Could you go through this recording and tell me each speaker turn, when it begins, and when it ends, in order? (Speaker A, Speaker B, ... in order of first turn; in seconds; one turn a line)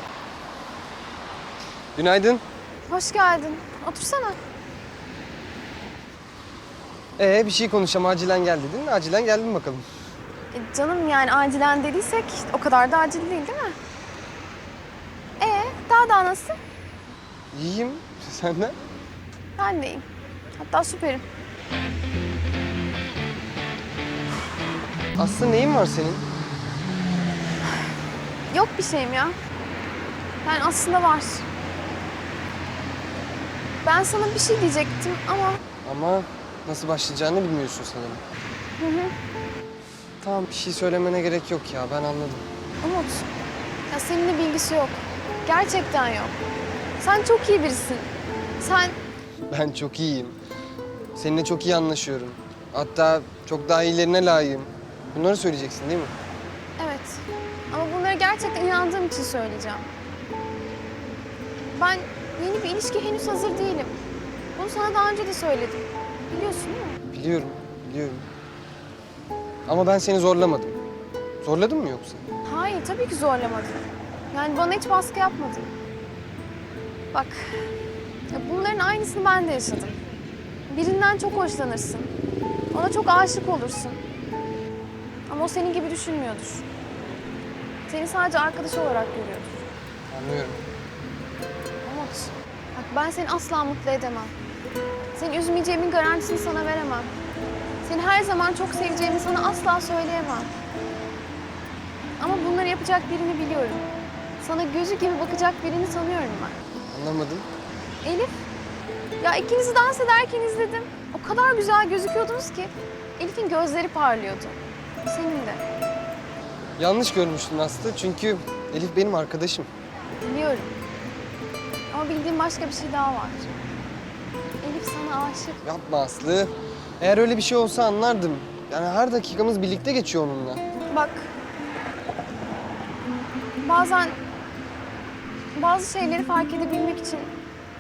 Speaker A: 1.9-2.4
Speaker B: 2.9-4.4
Speaker A: 7.2-9.9
Speaker B: 10.5-13.8
Speaker B: 15.4-16.6
Speaker A: 17.5-18.8
Speaker B: 19.6-20.1
Speaker B: 20.6-21.2
Speaker A: 25.2-26.3
Speaker B: 28.5-29.4
Speaker B: 30.4-31.5
Speaker B: 33.8-35.6
Speaker A: 35.8-38.2
Speaker B: 38.8-39.1
Speaker A: 40.2-42.5
Speaker B: 42.8-43.3
Speaker B: 43.9-46.4
Speaker B: 47.0-48.1
Speaker B: 48.6-49.0
Speaker A: 49.5-50.4
Speaker A: 51.1-56.1
Speaker B: 56.8-59.9
Speaker B: 61.6-64.0
Speaker B: 64.5-67.0
Speaker A: 67.1-68.2
Speaker A: 69.7-70.8
Speaker A: 71.4-72.2
Speaker B: 72.5-75.7
Speaker B: 77.1-77.8
Speaker B: 78.3-80.0
Speaker B: 80.7-82.1
Speaker B: 82.7-84.0
Speaker B: 85.3-86.7
Speaker B: 87.9-89.5
Speaker A: 90.1-90.6
Speaker B: 91.8-94.3
Speaker B: 95.2-97.1
Speaker B: 97.8-100.5
Speaker B: 102.2-103.9
Speaker B: 104.4-106.6
Speaker A: 106.9-107.5
Speaker B: 108.0-108.3
Speaker B: 109.2-115.6
Speaker A: 116.8-119.7
Speaker B: 120.2-120.7
Speaker B: 121.9-123.6
Speaker B: 124.6-125.6
Speaker A: 125.6-130.7
Speaker B: 130.9-131.3
Speaker B: 133.6-134.2
Speaker B: 135.6-137.3